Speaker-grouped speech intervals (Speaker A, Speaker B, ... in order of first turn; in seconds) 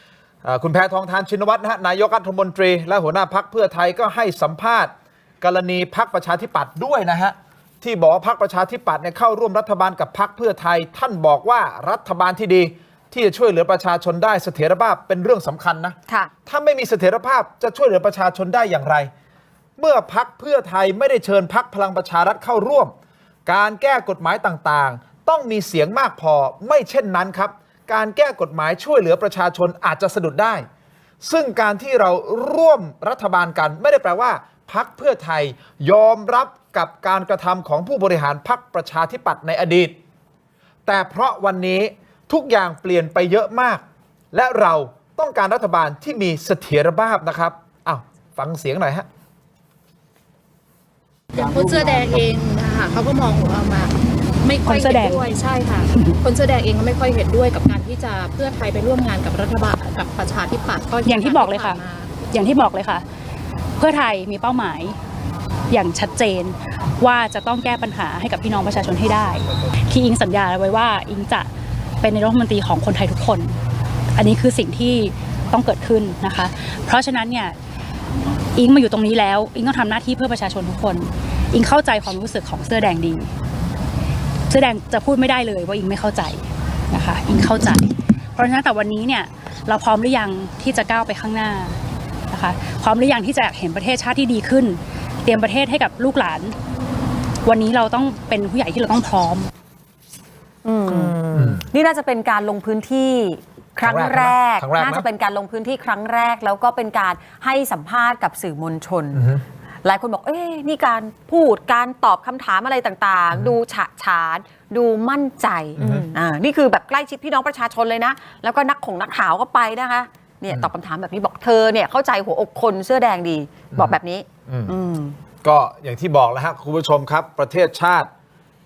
Speaker A: 0.4-19.1, 19.8-22.9, 23.4-30.6, 31.2-39.9, 40.9-49.1, 101.3-101.6, 103.8-105.0, 109.1-109.4, 115.8-116.1, 123.7-124.7, 125.4-128.1
Speaker B: 51.4-53.9, 54.5-62.1
Speaker C: 54.6-55.3, 55.9-56.2, 61.0-63.0, 63.8-65.0, 65.7-71.5, 72.0-73.6, 74.1-77.5, 78.5-83.3, 84.5-91.8, 92.3-96.5, 97.4-99.5
Speaker D: 100.6-109.2, 109.8-125.2